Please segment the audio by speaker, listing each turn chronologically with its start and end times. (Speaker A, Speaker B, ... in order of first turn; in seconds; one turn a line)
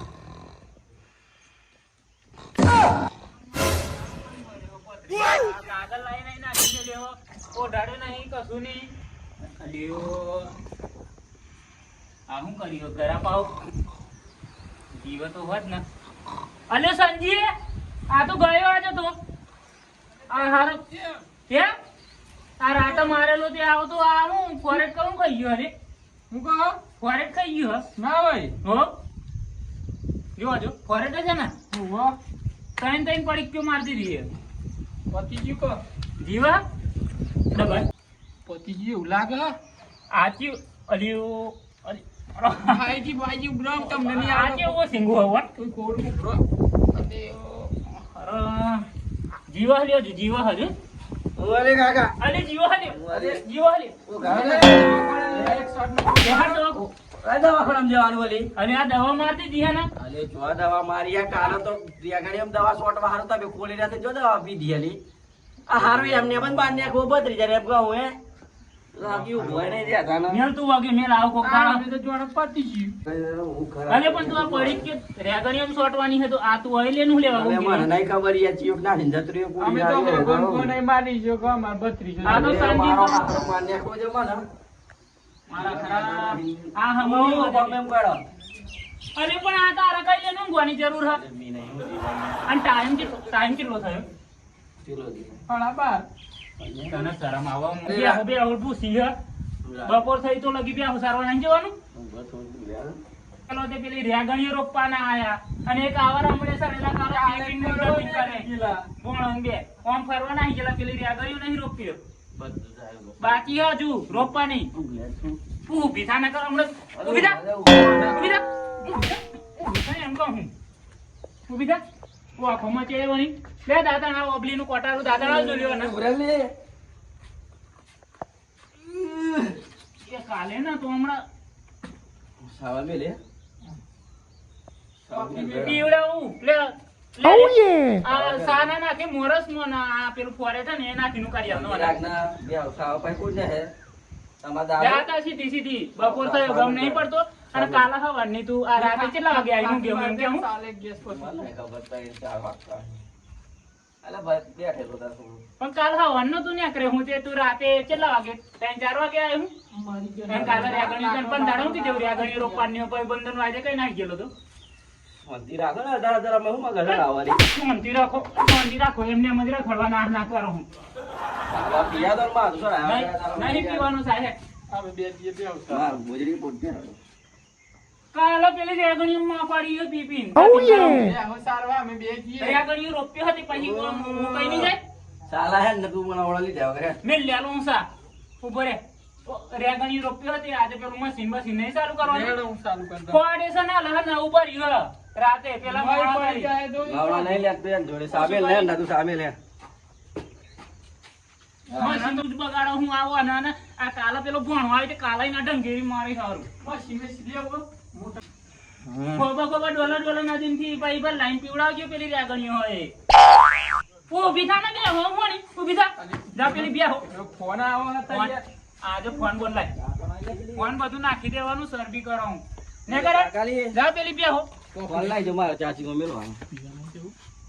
Speaker A: 4.1-10.5
Speaker A: 12.3-13.6
Speaker A: 14.9-15.8
Speaker A: 16.7-17.5
Speaker A: 18.1-19.1
Speaker B: 20.3-21.2
Speaker A: 20.3-20.8
Speaker A: 22.6-25.7
Speaker B: 26.3-26.8
Speaker A: 27.0-27.9
Speaker B: 28.0-28.6
Speaker A: 28.6-29.0
Speaker A: 30.4-31.6
Speaker B: 31.7-32.2
Speaker A: 32.8-34.3
Speaker B: 35.1-35.8
Speaker A: 36.2-36.6
Speaker A: 37.5-37.9
Speaker B: 38.5-39.6
Speaker A: 40.1-42.9
Speaker B: 42.6-44.8
Speaker A: 44.0-45.5
Speaker B: 45.6-46.4
Speaker B: 46.9-47.7
Speaker A: 48.0-48.9
Speaker A: 49.5-50.7
Speaker C: 51.4-52.2
Speaker A: 52.2-54.0
Speaker C: 52.9-53.4
Speaker C: 54.1-55.6
Speaker B: 54.2-56.7
Speaker A: 56.2-56.9
Speaker C: 57.2-58.5
Speaker A: 58.5-59.9
Speaker C: 60.0-65.0
Speaker C: 65.7-68.2
Speaker C: 68.9-70.4
Speaker B: 69.1-69.8
Speaker A: 70.3-71.8
Speaker B: 71.4-73.0
Speaker C: 73.0-74.9
Speaker A: 73.9-77.9
Speaker C: 77.3-80.7
Speaker B: 79.6-82.8
Speaker A: 82.2-83.4
Speaker C: 82.2-84.4
Speaker A: 85.5-87.8
Speaker C: 85.5-88.2
Speaker A: 89.2-91.2
Speaker C: 91.1-92.5
Speaker A: 92.5-94.1
Speaker C: 94.8-95.4
Speaker B: 95.5-96.1
Speaker C: 96.6-97.1
Speaker A: 96.9-99.1
Speaker C: 97.8-98.3
Speaker C: 99.6-100.1
Speaker A: 99.8-101.7
Speaker C: 101.9-103.0
Speaker A: 103.5-112.0
Speaker B: 107.0-108.9
Speaker C: 112.3-115.4
Speaker A: 113.2-114.7
Speaker A: 115.7-117.4
Speaker C: 117.0-118.3
Speaker A: 118.0-120.5
Speaker A: 121.5-121.8
Speaker A: 122.4-126.0
Speaker C: 125.0-126.5
Speaker C: 128.8-129.6
Speaker A: 130.0-131.2
Speaker C: 132.4-133.2
Speaker C: 135.0-135.9
Speaker B: 135.1-135.9
Speaker A: 135.6-142.0
Speaker C: 138.1-138.7
Speaker C: 141.4-143.7
Speaker C: 144.4-145.1
Speaker A: 144.8-150.4
Speaker C: 146.0-147.9
Speaker B: 148.8-151.5
Speaker C: 151.0-153.0
Speaker C: 154.0-155.4
Speaker A: 155.6-159.5
Speaker B: 159.7-162.8
Speaker A: 160.3-164.3
Speaker C: 160.3-160.9
Speaker C: 165.2-167.4
Speaker A: 166.8-170.7
Speaker C: 171.5-173.9
Speaker A: 172.8-174.3
Speaker B: 174.7-176.0
Speaker C: 175.7-177.0
Speaker A: 178.1-181.1
Speaker B: 180.4-182.7
Speaker A: 182.4-184.8
Speaker C: 183.5-184.8
Speaker C: 185.3-187.0
Speaker A: 187.0-187.9
Speaker A: 188.4-192.4
Speaker B: 192.0-193.2
Speaker A: 193.1-196.5
Speaker B: 195.6-197.5
Speaker C: 196.8-199.4
Speaker B: 198.1-198.8
Speaker B: 201.7-202.2
Speaker A: 201.7-206.5
Speaker B: 206.6-208.2
Speaker C: 208.8-209.3
Speaker A: 209.2-212.9
Speaker A: 214.1-217.1
Speaker B: 216.0-218.5
Speaker A: 218.1-219.7
Speaker C: 219.7-220.8
Speaker A: 220.6-224.5
Speaker C: 222.9-223.8
Speaker B: 224.7-225.4
Speaker C: 224.8-226.4
Speaker B: 226.5-227.2